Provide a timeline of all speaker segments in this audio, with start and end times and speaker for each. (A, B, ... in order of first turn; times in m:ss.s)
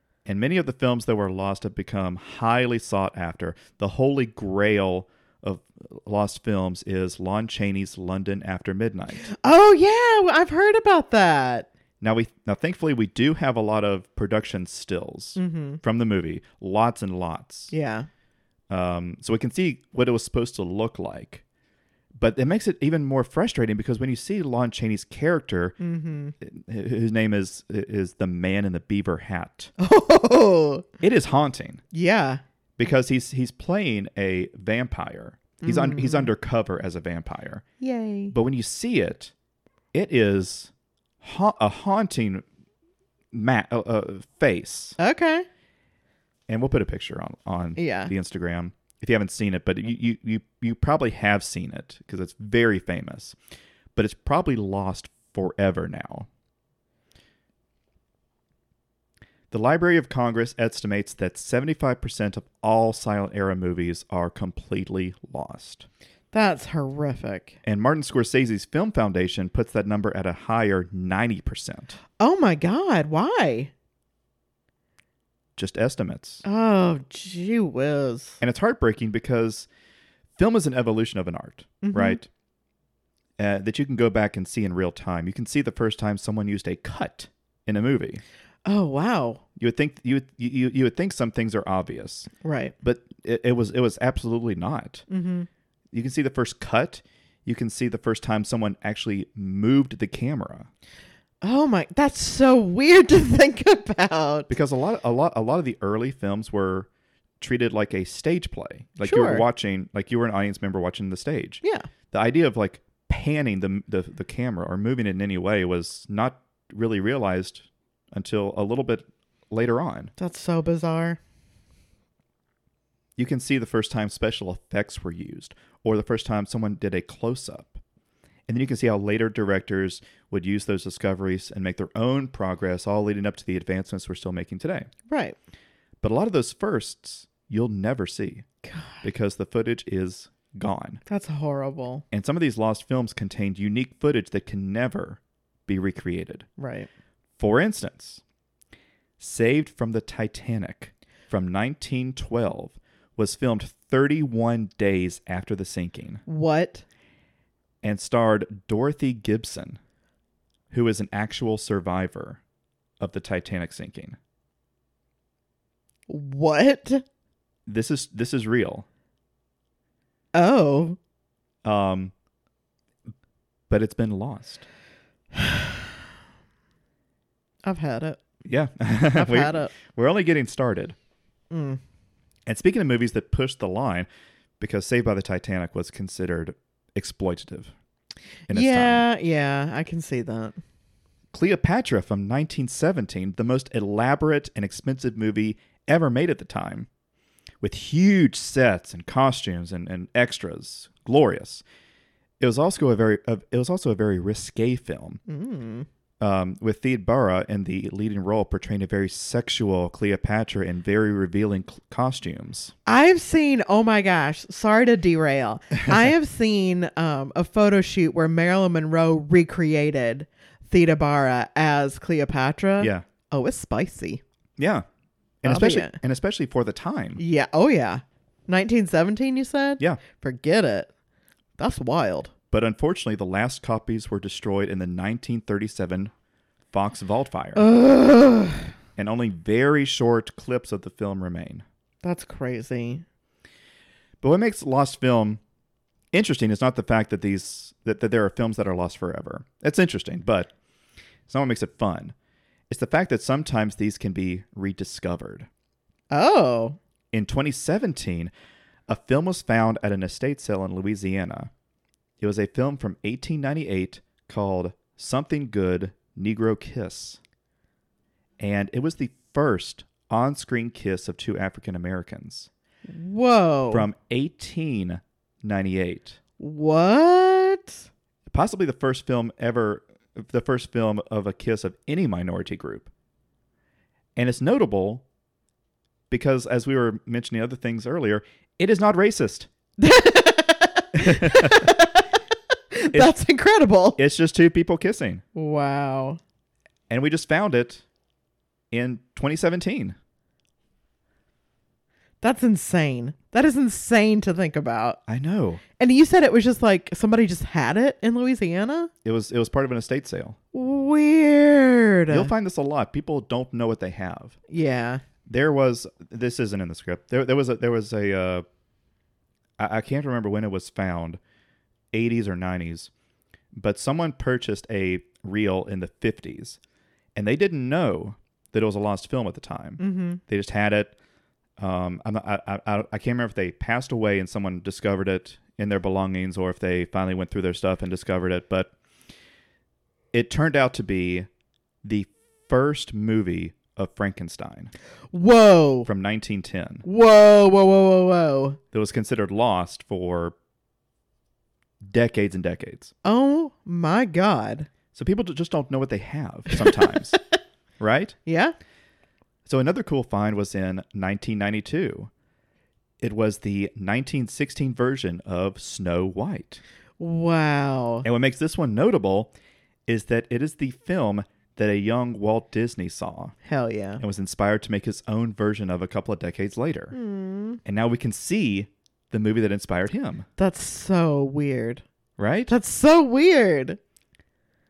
0:00.2-0:09.3 A
0:09.2-0:11.7 B
0:12.0-0:17.7 A
0:15.4-0:15.8 B
0:17.7-0:18.1 B
0:18.7-0:21.4 A
0:22.2-0:25.8 A
0:25.8-0:26.3 B
0:26.4-0:29.7 A
0:29.8-0:30.9 B
0:31.0-0:31.8 A
0:31.9-0:32.4 B
0:32.8-0:37.6 A
0:35.6-0:36.3 B
0:37.8-0:38.3 B
0:38.3-0:39.3 A
0:39.9-0:42.4 A
0:43.3-0:45.0 A
0:45.0-0:45.4 B
0:46.5-0:53.4 A
0:47.8-0:48.1 B
0:53.9-0:56.3 A
0:59.5-1:05.9 A
1:06.3-1:07.6 B
1:07.6-1:12.0 A
1:12.2-1:13.7 B
1:15.6-1:16.4 A
1:16.4-1:18.4 B
1:18.4-1:19.7 A
1:20.4-1:22.3 A
1:21.8-1:22.2 B
1:23.4-1:28.2 A
1:28.6-1:29.4 B
1:29.6-1:32.3 A
1:32.4-1:32.7 B
1:32.8-1:35.0 A
1:35.1-1:35.5 B
1:35.9-1:40.7 A
1:41.4-1:44.5 B
1:44.5-1:46.9 A
1:47.4-2:00.1 A
1:49.0-1:49.4 B
2:00.2-2:01.2 B
2:03.2-2:07.8 A
2:08.5-2:14.9 A
2:15.1-2:15.4 B
2:16.0-2:18.4 A
2:18.6-2:19.0 B
2:19.0-2:21.0 A
2:21.0-2:22.0 B
2:22.1-2:26.5 A
2:26.6-2:26.9 B
2:27.4-2:28.2 A
2:29.2-2:36.2 A
2:36.3-2:36.8 B
2:37.8-2:39.8 A
2:40.7-2:42.4 A
2:43.0-2:44.2 A
2:46.1-2:47.0 B
2:47.6-2:48.8 A
2:50.3-2:51.0 B
2:51.6-2:52.1 A
2:53.7-2:54.6 A
2:55.3-2:55.7 B
2:57.6-2:58.2 B
2:58.4-3:01.0 A
2:59.1-2:59.7 B
3:01.5-3:01.8 B
3:02.4-3:04.1 A
3:04.6-3:07.7 A
3:08.5-3:09.0 A
3:08.5-3:10.6 B
3:11.3-3:16.9 A
3:17.6-3:21.6 A
3:22.4-3:25.2 A
3:25.3-3:25.9 B
3:26.2-3:32.7 A
3:32.8-3:44.2 B
3:42.8-3:43.0 A
3:44.6-3:44.8 A
3:45.4-3:47.2 A
3:45.4-3:46.0 B
3:47.2-3:50.9 B
3:51.6-3:52.3 B
3:52.5-3:56.1 A
3:56.7-3:57.6 A
3:57.5-3:58.7 B
3:59.0-4:01.6 A
4:02.0-4:03.0 B
4:04.2-4:05.4 A
4:06.1-4:10.5 A
4:11.3-4:12.1 A
4:12.7-4:15.5 A
4:16.1-4:16.8 B
4:17.1-4:18.3 A
4:18.9-4:21.5 A
4:22.2-4:27.2 A
4:28.4-4:32.5 A
4:32.9-4:33.9 B
4:33.7-4:36.2 A
4:36.4-4:37.8 B
4:38.3-4:42.9 A
4:44.2-4:45.0 A
4:46.1-4:49.5 A
4:49.8-4:52.1 B
4:50.9-4:51.7 A
4:52.7-4:54.0 B
4:54.0-4:55.2 A
4:55.3-4:56.2 B
4:56.9-4:57.8 A
4:58.7-5:00.0 A
5:02.2-5:05.0 B
5:05.1-5:05.6 A
5:05.8-5:08.9 B
5:09.0-5:10.4 A
5:10.5-5:12.3 B
5:12.1-5:14.4 A
5:14.5-5:15.0 B
5:15.2-5:18.4 A
5:19.6-5:21.2 A
5:21.9-5:22.9 A
5:23.5-5:26.6 A
5:27.2-5:30.9 A
5:29.8-5:30.2 B
5:31.6-5:38.7 A
5:40.1-5:41.3 A
5:41.8-5:44.7 A
5:45.1-5:45.9 B
5:45.8-5:46.8 A
5:46.8-5:48.6 B
5:48.7-5:50.3 A
5:51.8-5:52.9 A
5:53.0-5:54.7 B
5:54.9-5:57.2 A
5:56.5-5:57.1 B
5:57.8-5:58.2 A
5:58.2-5:58.5 B
5:59.4-6:02.1 A
6:03.0-6:06.6 A
6:07.0-6:08.0 B
6:08.0-6:09.3 A
6:09.9-6:13.3 A
6:13.4-6:14.0 B
6:14.0-6:16.9 A
6:16.9-6:17.6 B
6:17.6-6:20.3 A
6:20.4-6:21.8 B
6:22.2-6:22.5 A
6:22.5-6:23.8 B